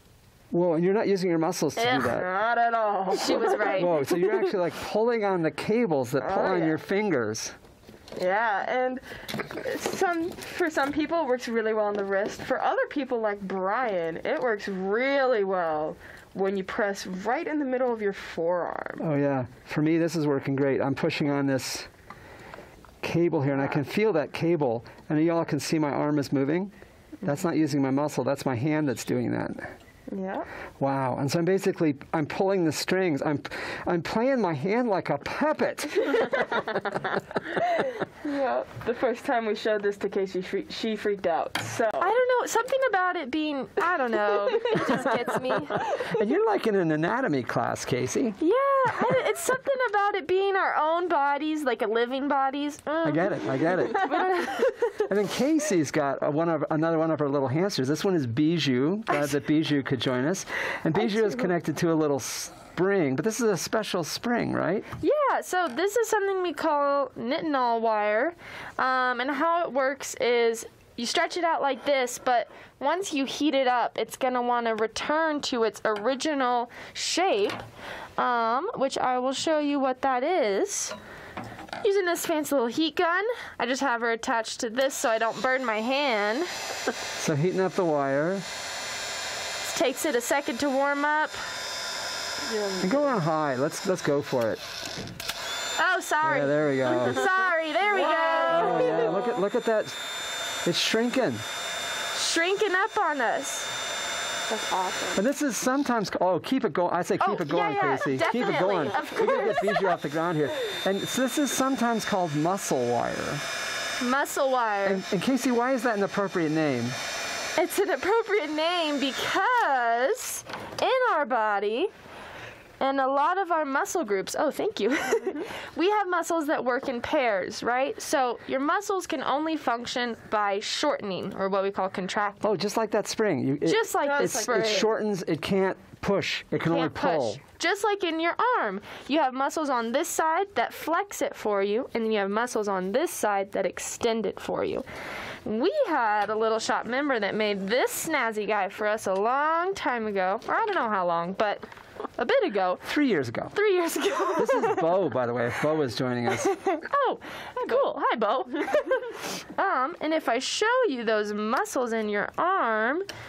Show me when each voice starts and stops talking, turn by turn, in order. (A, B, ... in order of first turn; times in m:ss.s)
0:00.5-0:02.3 A
0:01.8-0:02.2 B
0:01.9-0:04.1 C
0:03.1-0:04.0 B
0:03.8-0:07.6 A
0:06.2-0:06.8 C
0:08.2-0:19.0 C
0:19.0-0:21.9 A
0:23.0-0:26.7 A
0:27.2-0:29.7 A
0:30.1-0:30.5 C
0:30.8-0:36.6 A
0:37.6-0:42.1 C
0:42.0-0:45.9 B
0:44.7-0:45.1 A
0:45.9-0:48.4 A
0:48.4-0:55.1 B
0:53.0-0:54.3 A
0:55.0-1:04.9 A
1:05.0-1:17.6 B
1:18.2-1:21.0 B
1:21.8-1:26.5 B
1:27.2-1:28.4 A
1:29.6-1:31.4 B
1:32.5-1:33.1 C
1:32.8-1:34.6 A
1:35.8-1:39.2 B
1:36.2-1:37.3 A
1:37.9-1:39.4 C
1:38.5-1:40.0 A
1:40.6-1:41.4 A
1:42.1-1:43.7 B
1:44.5-1:45.1 C
1:45.2-1:53.4 A
1:47.2-1:50.0 B
1:54.0-1:55.0 B
1:54.8-1:57.0 A
1:57.6-2:01.9 B
2:02.8-2:12.6 B
2:12.4-2:17.4 A
2:13.6-2:14.9 B
2:14.0-2:14.9 C
2:16.6-2:24.8 B
2:25.4-2:31.6 B
2:32.2-2:32.8 B
2:32.8-2:33.5 A
2:33.5-2:34.9 B
2:34.4-2:36.6 A
2:36.4-2:43.1 B